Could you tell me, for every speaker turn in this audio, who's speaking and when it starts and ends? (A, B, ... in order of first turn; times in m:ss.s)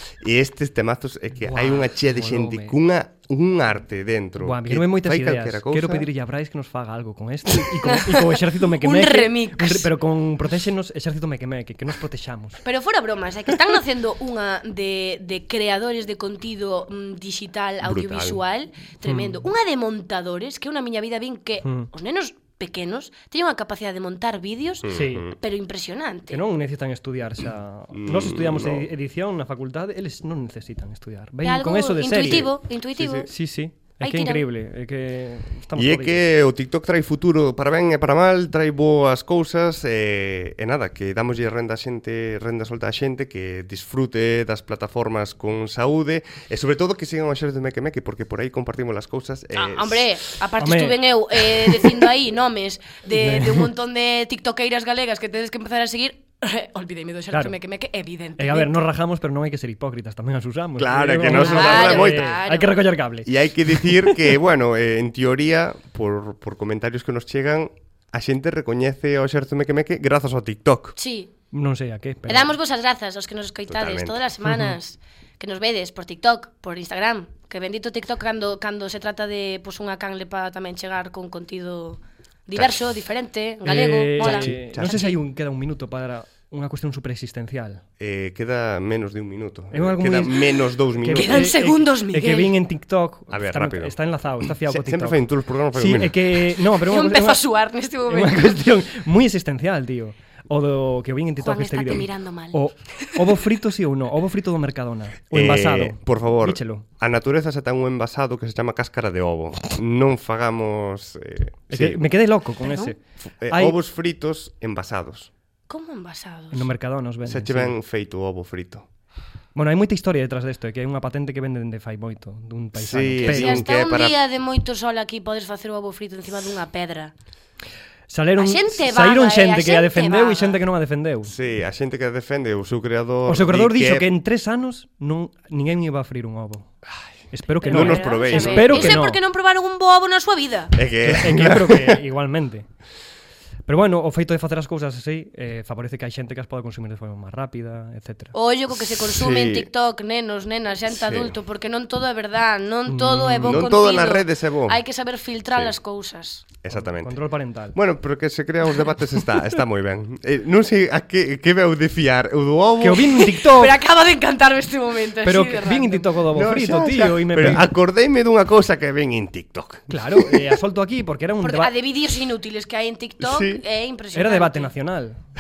0:00.2-0:06.1 A
0:01.4-0:02.8 B
0:04.4-0:12.6 B
0:07.8-0:09.9 C
0:12.6-0:26.4 C
0:17.8-0:18.4 A
0:19.1-0:19.4 B
0:21.6-0:21.9 B
0:24.8-0:25.4 A
0:24.9-0:25.2 B
0:26.3-0:32.6 B
0:27.9-0:28.9 A
0:31.4-0:34.4 C
0:33.0-0:33.3 A
0:33.3-0:36.2 B
0:35.8-0:50.1 A
0:49.6-0:58.8 C
0:50.6-0:51.0 B
0:53.1-0:53.7 B
0:58.4-1:04.2 B
1:00.8-1:02.4 A
1:01.3-1:02.8 C
1:03.2-1:11.0 A
1:11.0-1:11.3 C
1:11.5-1:12.5 B
1:12.3-1:25.2 C
1:13.7-1:14.2 A
1:14.4-1:14.8 B
1:22.6-1:22.8 A
1:23.6-1:27.8 B
1:24.2-1:25.1 A
1:28.0-1:31.5 A
1:29.7-1:35.2 B
1:31.1-1:32.6 C
1:33.3-1:36.2 A
1:35.7-1:37.4 B
1:36.9-1:38.6 C
1:38.1-1:46.8 B
1:41.4-1:43.2 C
1:45.3-1:52.0 A
1:51.7-1:53.8 B
1:52.7-1:52.9 C
1:53.4-1:55.3 A
1:55.7-1:56.7 C
1:56.5-1:57.8 B
1:57.3-1:58.9 A
1:59.6-2:03.6 B
2:02.8-2:04.1 A
2:03.2-2:07.1 C
2:08.1-2:11.3 B
2:08.4-2:10.6 C
2:11.2-2:14.1 A
2:13.3-2:16.7 B
2:17.3-2:19.2 B
2:17.6-2:20.8 C
2:17.7-2:19.0 A
2:20.8-2:22.0 A
2:21.0-2:22.7 B
2:23.7-2:28.4 B
2:28.3-2:36.4 C
2:29.0-2:29.7 A
2:30.9-2:31.4 A
2:32.9-2:33.6 B
2:33.4-2:34.8 A
2:35.5-2:35.8 A
2:36.6-2:37.2 A
2:36.7-2:37.8 B
2:37.7-2:43.2 A
2:42.8-2:43.7 B
2:43.3-2:46.1 C
2:45.2-2:47.6 B
2:46.3-2:50.4 A
2:49.9-2:51.7 B
2:51.4-2:54.7 C
2:53.2-2:53.6 A
2:54.2-2:55.2 B